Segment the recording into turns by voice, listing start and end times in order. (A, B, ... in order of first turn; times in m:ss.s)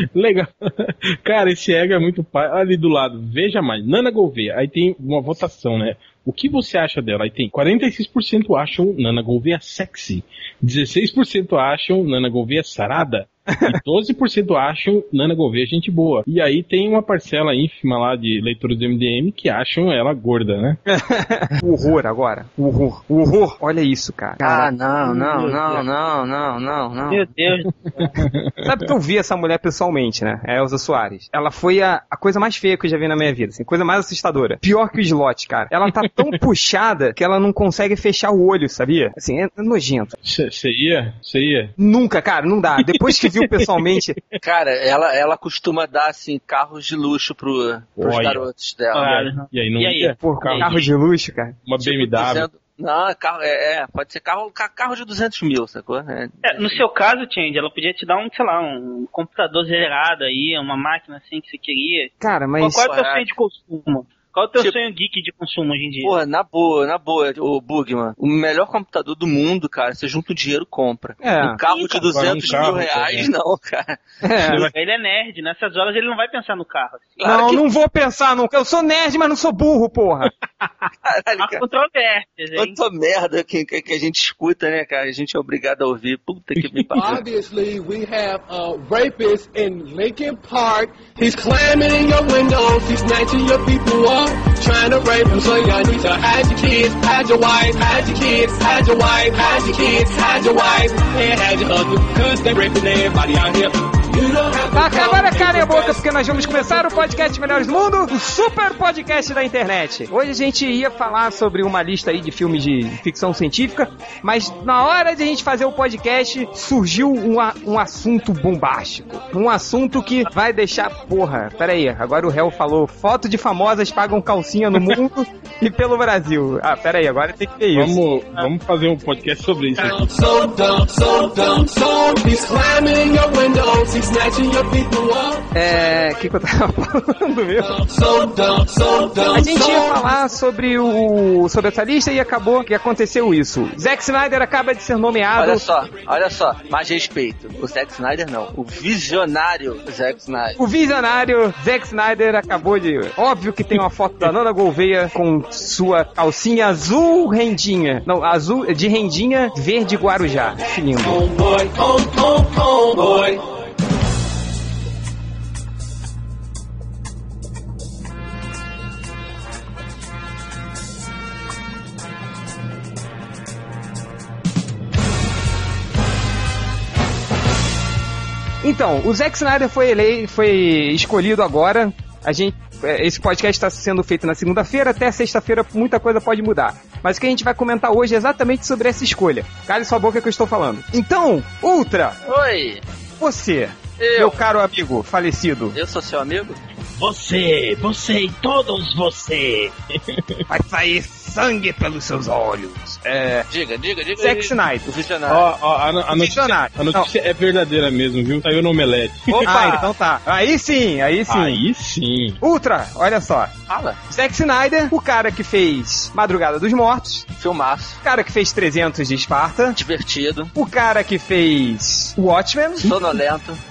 0:00.1-0:20.8 A
0:20.9-0:24.7 B
0:24.4-0:27.3 C
0:25.0-0:25.8 D
0:27.1-0:28.2 D
0:28.0-0:28.9 A
0:28.6-0:40.2 B
0:40.2-0:41.7 A
0:41.8-0:44.2 B
0:42.8-0:44.0 A
0:44.4-0:49.1 C
0:48.0-0:48.4 A
0:48.9-0:50.7 D
0:49.0-0:50.8 A
0:50.2-0:51.6 B
0:51.6-0:52.4 A
0:51.8-0:56.8 C
0:56.4-1:06.2 D
1:02.2-1:02.8 B
1:02.6-1:03.2 C
1:06.0-1:14.0 C
1:11.2-1:11.6 B
1:11.5-1:13.3 A
1:14.2-1:14.7 B
1:14.4-1:14.7 A
1:14.6-1:17.2 D
1:17.2-1:17.6 C
1:17.2-1:20.3 B
1:21.0-1:21.6 C
1:21.4-1:22.8 D
1:22.6-1:27.2 C
1:26.6-1:27.0 A
1:27.0-1:46.8 E
1:44.7-2:08.0 B
2:07.7-2:10.0 A
2:09.8-2:15.5 E
2:15.5-2:17.8 B
2:17.6-2:19.9 E
2:19.3-2:25.6 B
2:25.4-2:30.6 C
2:30.6-2:41.2 B
2:41.0-2:43.4 E
2:58.6-3:12.2 B
3:12.2-3:12.8 C
3:13.2-3:15.8 B
3:14.0-3:14.4 C
3:15.7-3:16.6 C
3:17.0-3:19.4 A
3:20.1-3:20.4 A
3:20.5-3:23.5 B
3:23.5-3:25.5 C
3:24.2-3:24.9 B
3:25.3-3:29.7 A
3:26.1-3:27.1 B
3:29.3-3:29.8 C
3:29.4-3:31.6 B
3:31.3-3:32.4 A
3:32.4-3:33.5 B
3:33.7-3:34.0 C
3:34.1-3:37.2 B
3:37.4-3:38.0 C
3:38.0-3:39.8 B
3:39.8-3:40.5 C
3:40.5-3:43.0 B
3:42.8-3:43.6 C